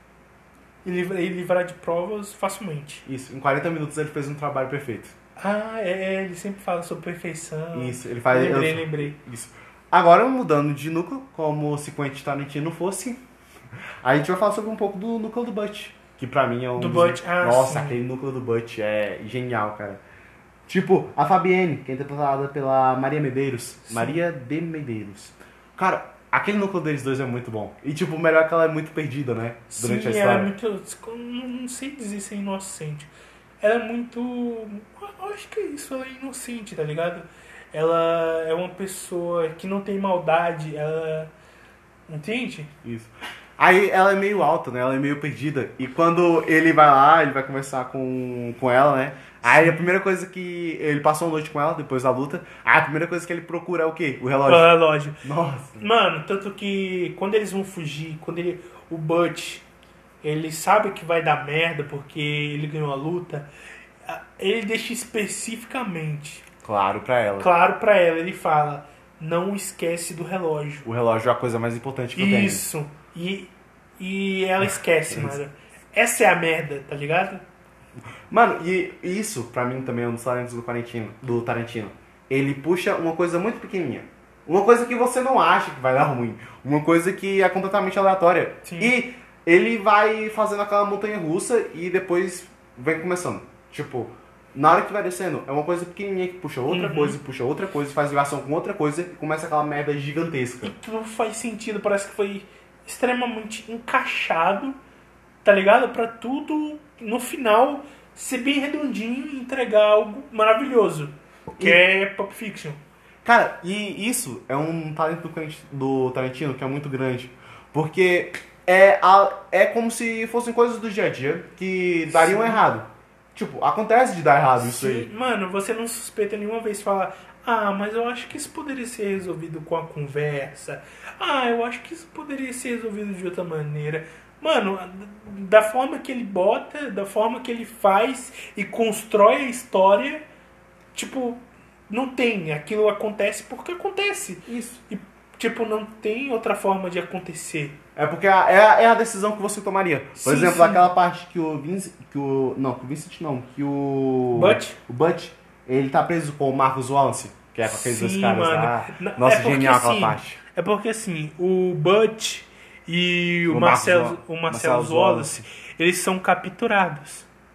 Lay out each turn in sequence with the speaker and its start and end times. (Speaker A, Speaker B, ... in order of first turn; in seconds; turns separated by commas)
Speaker A: 0.8-3.0, Speaker B: 3.1-5.1, Speaker A: 5.4-9.2, Speaker B: 7.7-13.2, Speaker B: 14.0-20.0, Speaker A: 16.8-18.0, Speaker B: 20.7-30.5, Speaker A: 23.9-24.2, Speaker A: 29.7-33.1, Speaker A: 33.6-41.3, Speaker A: 42.1-42.7, Speaker B: 42.8-55.9, Speaker A: 49.4-49.9, Speaker A: 54.5-55.2, Speaker A: 55.8-59.6, Speaker A: 60.2-63.5, Speaker A: 64.1-66.5, Speaker B: 66.6-67.5, Speaker A: 67.4-70.9, Speaker B: 70.8-72.7, Speaker A: 72.2-77.4, Speaker B: 74.6-75.4, Speaker B: 78.3-100.7, Speaker A: 88.6-89.0, Speaker A: 96.7-97.2, Speaker A: 100.6-104.8, Speaker A: 105.4-112.8, Speaker B: 113.2-125.1, Speaker A: 122.1-122.6, Speaker A: 124.6-140.2, Speaker A: 140.9-147.8, Speaker B: 144.5-144.8, Speaker B: 148.0-160.4, Speaker A: 150.2-150.9, Speaker A: 154.3-154.8, Speaker A: 157.6-167.3, Speaker B: 163.5-165.4